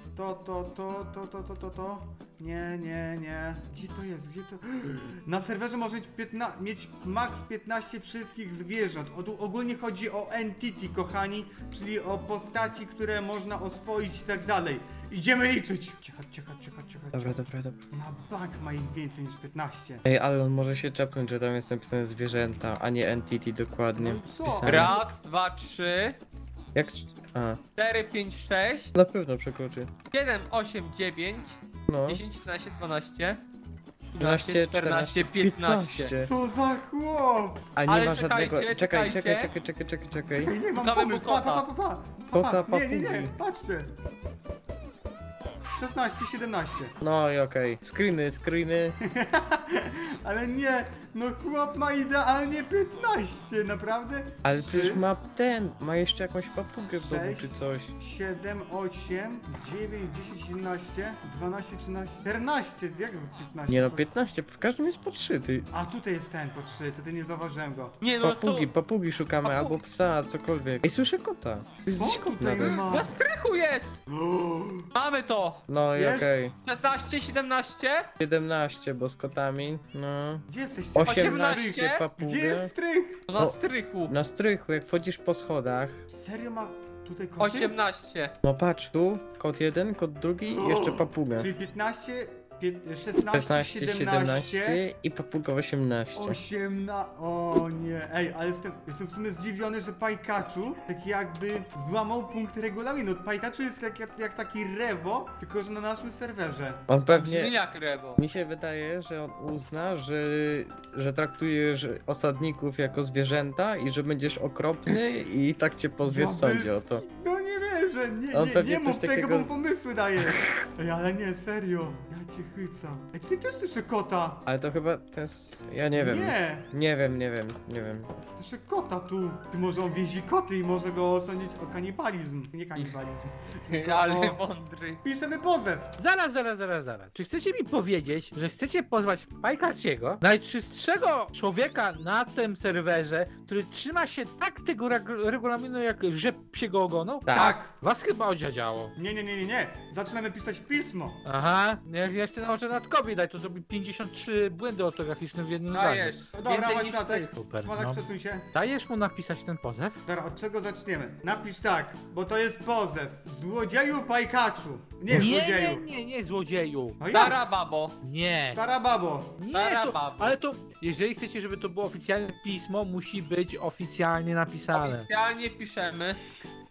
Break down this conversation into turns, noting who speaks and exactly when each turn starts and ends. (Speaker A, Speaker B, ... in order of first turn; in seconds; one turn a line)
Speaker A: 0.1-20.0
Speaker B: 17.1-17.8
Speaker B: 20.0-25.0
Speaker A: 23.9-25.1
Speaker C: 24.6-26.2
Speaker B: 26.7-27.6
Speaker C: 27.8-28.9
Speaker B: 28.9-29.9
Speaker C: 30.1-33.4
Speaker B: 31.9-32.2
Speaker C: 34.1-36.1
Speaker B: 34.2-36.3
Speaker A: 36.2-37.7
Speaker B: 37.8-40.5
Speaker C: 37.9-39.5
Speaker A: 40.3-43.9
Speaker C: 40.8-41.6
Speaker B: 42.3-43.3
Speaker A: 45.7-47.0
Speaker B: 47.0-49.0
Speaker A: 49.0-55.0
Speaker B: 54.4-57.9
Speaker A: 56.9-64.1
Speaker B: 63.7-65.7
Speaker A: 65.7-68.0
Speaker C: 68.0-68.7
Speaker B: 68.2-72.8
Speaker C: 69.4-69.8
Speaker A: 71.9-73.1
Speaker C: 72.6-74.0
Speaker A: 74.1-74.9
Speaker C: 74.9-75.6
Speaker B: 75.7-76.5
Speaker A: 75.9-76.3
Speaker C: 76.6-78.1
Speaker B: 78.2-82.7
Speaker A: 80.5-83.2
Speaker C: 81.1-82.0
Speaker C: 83.3-84.1
Speaker B: 83.3-86.0
Speaker A: 86.1-87.8
Speaker C: 87.4-88.3
Speaker B: 88.4-91.5
Speaker A: 90.5-94.8
Speaker B: 93.3-96.4
Speaker A: 96.1-106.8
Speaker B: 106.9-107.5
Speaker C: 107.1-108.2
Speaker B: 108.2-117.0
Speaker A: 116.0-124.4
Speaker B: 118.3-119.5
Speaker B: 124.5-128.1
Speaker A: 125.9-126.7
Speaker A: 128.4-134.4
Speaker C: 133.7-135.0
Speaker A: 135.0-135.9
Speaker D: 136.0-148.9
Speaker B: 147.2-147.6
Speaker A: 147.3-147.7
Speaker A: 148.9-151.2
Speaker D: 151.2-156.2
Speaker C: 155.7-157.3
Speaker A: 156.3-158.5
Speaker D: 157.3-158.0
Speaker D: 158.5-160.0
Speaker A: 160.1-165.8
Speaker D: 165.1-167.0
Speaker A: 167.0-167.4
Speaker C: 167.1-167.9
Speaker D: 168.0-168.6
Speaker A: 168.4-169.4
Speaker D: 169.4-175.1
Speaker C: 169.5-170.4
Speaker C: 174.7-176.2